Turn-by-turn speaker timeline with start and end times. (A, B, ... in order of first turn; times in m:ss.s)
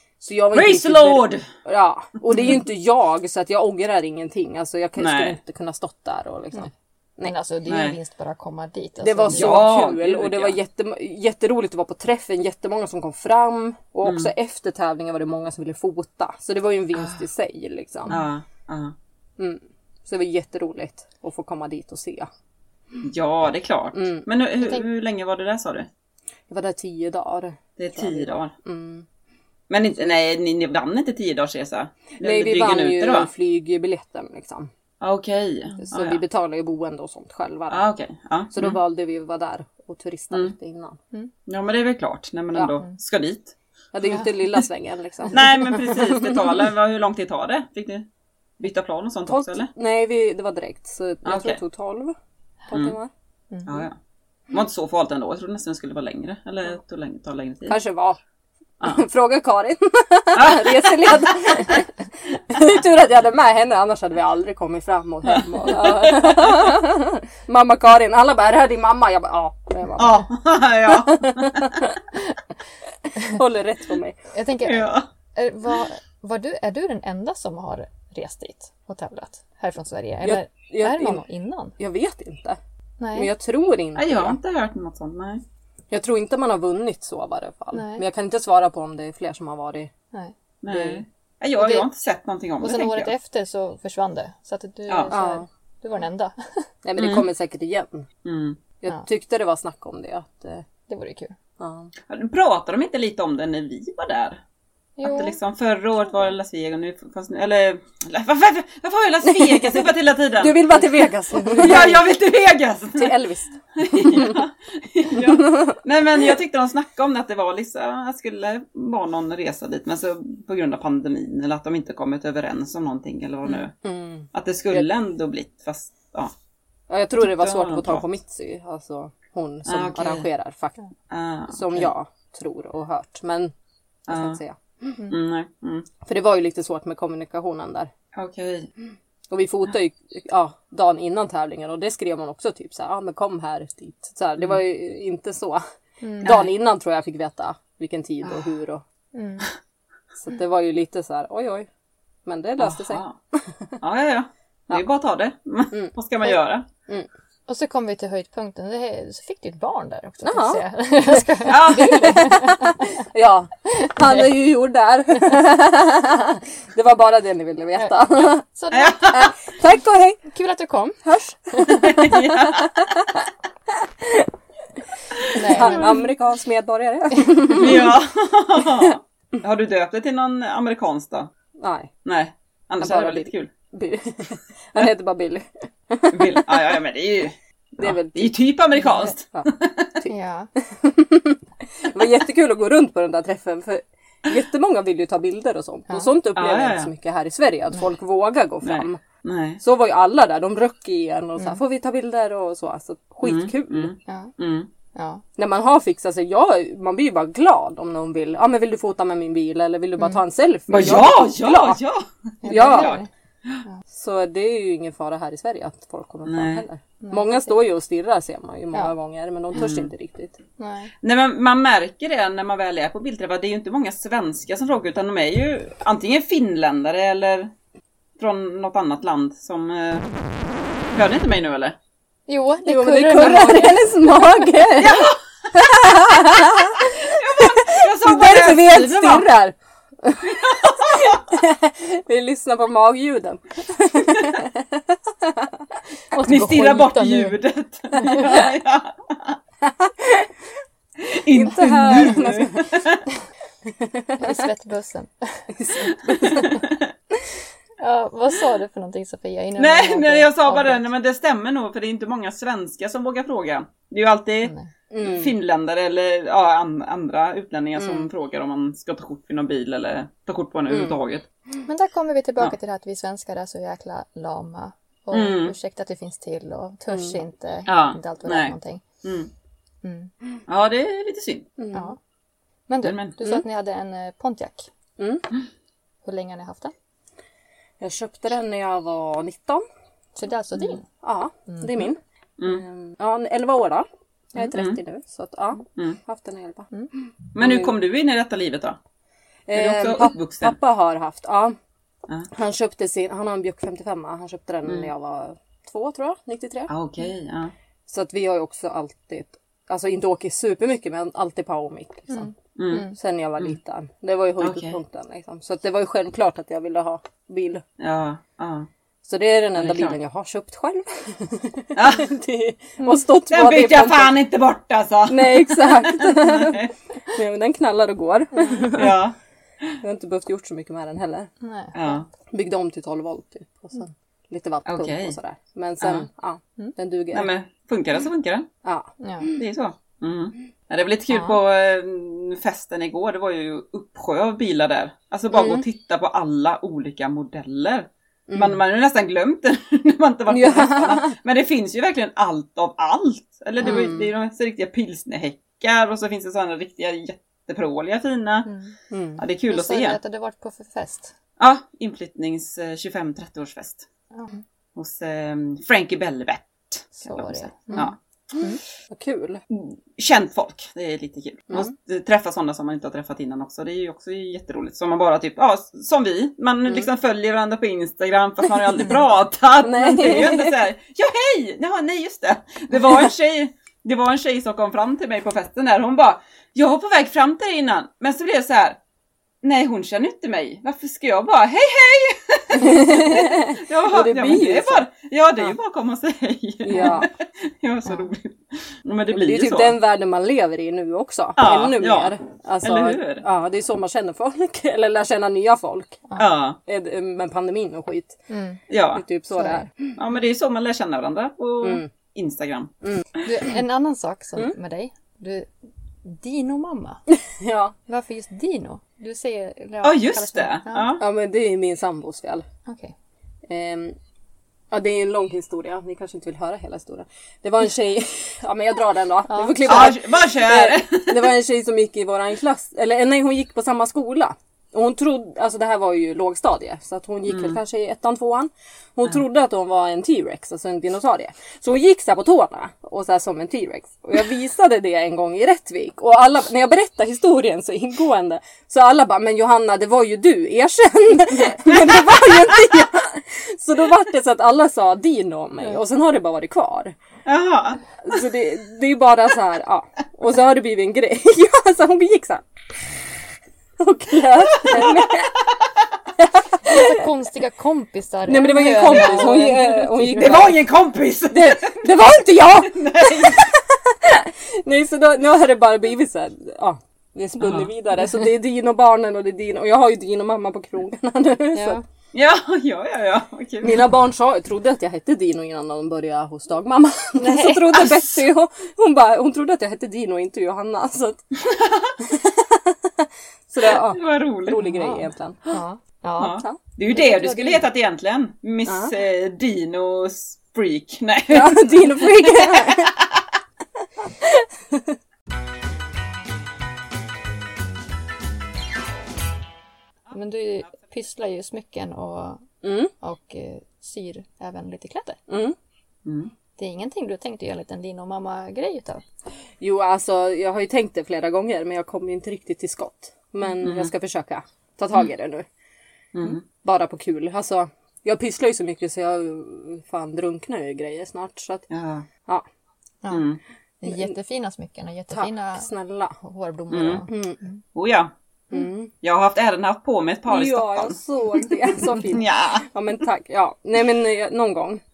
0:00.2-0:07.3 A
0:00.5-0:01.5 B
0:02.3-0:02.6 B
0:05.0-0:05.4 B
0:07.2-0:09.7 C
0:07.7-0:08.0 B
0:09.0-0:18.2 A
0:09.3-0:10.6 B
0:14.0-0:14.3 B
0:18.1-0:18.9 B
0:19.4-0:22.3 A
0:23.0-0:25.9 B
0:23.9-0:24.2 A
0:26.5-0:29.0 A
0:27.8-0:28.5 B
0:29.7-0:33.3 B
0:32.2-0:34.7 A
0:35.0-0:36.2 B
0:35.8-0:37.8 A
0:37.7-0:38.8 B
0:38.5-0:41.0 A
0:41.5-0:43.5 B
0:43.9-0:46.6 A
0:45.3-0:48.0 B
0:48.6-0:49.7 B
0:49.3-0:52.2 A
0:51.2-0:51.6 B
0:52.7-0:53.1 A
0:53.5-0:53.8 C
0:53.6-0:54.0 B
0:54.5-0:57.8 B
0:57.7-0:58.2 A
0:58.8-1:10.2 A
1:00.3-1:01.8 B
1:05.6-1:06.4 B
1:10.0-1:11.8 B
1:10.9-1:12.0 A
1:13.1-1:14.2 A
1:14.3-1:21.8 C
1:14.6-1:15.0 B
1:20.2-1:21.2 A
1:21.8-1:22.6 A
1:23.0-1:23.3 C
1:23.1-1:24.4 A
1:23.9-1:25.4 B
1:25.9-1:29.9 A
1:27.7-1:28.0 C
1:30.6-1:33.1 B
1:30.7-1:31.0 A
1:31.6-1:31.9 C
1:32.6-1:36.6 C
1:35.1-1:35.4 A
1:36.8-1:38.1 A
1:37.0-1:37.2 B
1:38.2-1:38.6 B
1:38.8-1:40.6 A
1:40.9-1:41.4 C
1:41.6-1:41.9 A
1:42.1-1:44.4 B
1:45.0-1:45.4 C
1:45.0-1:53.2 B
1:49.2-1:52.1 A
1:53.0-1:54.4 A
1:53.8-2:03.7 B
1:55.1-1:55.8 A
2:03.5-2:04.8 A
2:04.3-2:06.3 B
2:06.9-2:10.8 A
2:07.2-2:08.0 B
2:09.6-2:10.2 B
2:11.1-2:11.9 B
2:11.5-2:13.5 A
2:14.1-2:14.6 A
2:14.1-2:14.4 B
2:15.1-2:15.9 B
2:16.0-2:17.9 A
2:18.1-2:18.7 B
2:19.3-2:25.6 A
2:26.0-2:26.4 C
2:26.2-2:28.8 A
2:29.1-2:29.5 C
2:30.2-2:31.7 A
2:32.2-2:33.4 A
2:32.6-2:33.1 B
2:33.8-2:36.6 B
2:37.5-2:42.9 C
2:40.2-2:48.4 A
2:41.4-2:42.3 B
2:43.7-2:44.1 C
2:47.7-2:49.1 C
2:48.7-2:49.3 B
2:49.0-2:50.2 A
2:50.3-2:52.0 C
2:51.0-2:53.2 A
2:51.7-2:52.8 B
2:54.0-2:54.3 A
2:55.2-2:55.9 B
2:55.3-2:56.0 C
2:55.4-2:58.0 A
2:57.5-3:01.3 B
3:01.6-3:01.9 A
3:02.0-3:03.5 B
3:02.8-3:06.7 A
3:06.1-3:09.9 B
3:07.8-3:08.4 A
3:09.3-3:19.0 A
3:10.1-3:10.5 C
3:16.3-3:16.9 B
3:18.6-3:19.6 B
3:19.6-3:23.9 A
3:23.2-3:24.7 B
3:24.0-3:24.3 C
3:24.9-3:25.2 C
3:25.4-3:31.8 A
3:30.7-3:33.6 B
3:32.4-3:33.1 C
3:32.5-3:33.0 A
3:33.9-3:40.4 A
3:36.2-3:36.6 B
3:37.0-3:37.5 C
3:39.5-3:39.9 B
3:40.6-3:40.9 C
3:41.0-3:47.5 B
3:48.2-3:50.1 B
3:50.9-3:51.8 B
3:52.3-3:53.8 C
3:52.6-4:05.5 A
3:53.2-3:53.7 B
3:54.8-3:55.2 B
3:56.8-3:59.3 B
4:00.3-4:01.2 B
4:06.1-4:07.4 C
4:06.2-4:09.4 B
4:08.0-4:08.3 C
4:09.6-4:10.3 A
4:11.0-4:13.0 B
4:11.3-4:12.8 A
4:13.7-4:14.4 A
4:14.2-4:16.4 C
4:15.5-4:16.6 A
4:16.2-4:16.9 B
4:17.8-4:20.8 C
4:19.6-4:31.2 B
4:24.4-4:24.7 C
4:24.9-4:25.3 A
4:27.8-4:28.1 A
4:30.7-4:31.0 A
4:31.6-4:38.8 C
4:35.1-4:35.5 B
4:37.7-4:39.3 B
4:39.8-4:40.1 C
4:40.5-4:41.5 B
4:41.6-4:41.9 A
4:41.7-4:42.0 C
4:42.7-4:44.7 C
4:42.8-4:43.2 B
4:45.0-4:45.2 A
4:46.0-4:46.7 C
4:47.8-4:49.6 A
4:50.2-4:50.8 C
4:51.0-4:57.7 A
4:54.4-4:54.8 B
4:57.3-4:58.8 B
4:59.5-5:01.6 A
4:59.5-5:00.5 B
5:02.3-5:06.7 A
5:04.6-5:04.9 B
5:06.7-5:07.5 B
5:07.9-5:12.3 A
5:12.1-5:12.9 C
5:12.6-5:13.6 B
5:12.9-5:17.6 A
5:14.4-5:14.8 B
5:17.8-5:18.7 B
5:19.0-5:24.2 A
5:19.6-5:20.0 B
5:21.7-5:22.1 B
5:23.3-5:26.7 B
5:25.1-5:29.0 A
5:28.3-5:28.7 C
5:28.7-5:29.7 B
5:29.8-5:31.3 A
5:31.4-5:32.0 C
5:31.7-5:32.0 B
5:32.3-5:37.3 A
5:34.6-5:35.2 B
5:35.8-5:36.1 B
5:37.1-5:38.5 B
5:38.6-5:39.4 A
5:39.0-5:39.3 C
5:39.3-5:58.5 B
5:45.3-5:45.6 A
5:48.3-5:48.6 A
5:50.3-5:51.1 A
5:53.6-5:54.1 A
5:58.4-5:58.7 C
5:58.9-5:59.2 A
5:59.2-6:00.0 B
5:59.5-6:01.1 C
6:01.4-6:03.8 B
6:04.1-6:04.4 C
6:04.8-6:08.0 B
6:07.0-6:08.6 C
6:08.9-6:09.4 A
6:09.5-6:28.8 B
6:19.6-6:20.6 A
6:29.4-6:39.8 B
6:32.6-6:34.8 A
6:36.6-6:37.1 A
6:39.1-6:46.0 A
6:41.4-6:43.2 B
6:46.2-6:46.6 B
6:46.6-6:48.2 A
6:48.3-6:48.6 C
6:48.7-6:49.0 B
6:48.9-6:49.9 A
6:49.3-6:49.6 C
6:50.0-6:53.2 B
6:51.6-6:51.9 A
6:53.2-6:55.5 C
6:56.0-6:57.0 C
6:57.3-6:57.7 A
6:57.9-7:00.9 C
6:59.8-7:01.0 B
7:01.0-7:02.4 A
7:02.6-7:02.9 C
7:03.5-7:04.0 A
7:04.7-7:36.9 A
7:09.3-7:09.9 C
7:09.6-7:11.2 B
7:17.3-7:17.6 B
7:31.8-7:32.4 B
7:37.2-7:37.8 B
7:38.0-7:43.0 A
7:43.8-7:45.4 A
7:44.6-7:45.1 B
7:46.2-7:47.0 A
7:46.6-7:50.5 C
7:48.3-7:50.6 A
7:50.2-7:53.5 B
7:51.3-8:01.8 A
7:57.4-7:57.7 B
8:01.5-8:01.8 C
8:02.1-8:03.8 B
8:03.6-8:11.2 A
8:07.2-8:07.8 C
8:11.4-8:11.9 B
8:12.0-8:15.6 A
8:13.7-8:14.6 B
8:14.6-8:17.6 C
8:16.2-8:23.1 B
8:18.6-8:18.9 A
8:21.3-8:22.9 A
8:24.0-8:25.0 A
8:30.1-8:32.5 C
8:32.6-8:32.9 A
8:33.0-8:35.2 C
8:35.3-8:35.6 A
8:36.0-8:36.3 B
8:36.6-8:39.0 C
8:39.6-8:45.5 A
8:43.6-8:43.9 B
8:46.1-8:46.4 B
8:46.5-8:51.7 A
8:51.7-8:52.1 B
8:53.1-8:53.4 B
8:53.8-8:55.7 C
8:53.8-8:54.1 A
8:55.1-8:56.1 A
8:56.2-8:57.6 C
8:56.7-8:57.0 B
8:57.1-8:57.4 A
8:57.7-8:58.1 B
8:58.5-8:58.9 A
8:59.0-9:01.0 B
9:00.3-9:04.8 A
9:01.9-9:02.6 B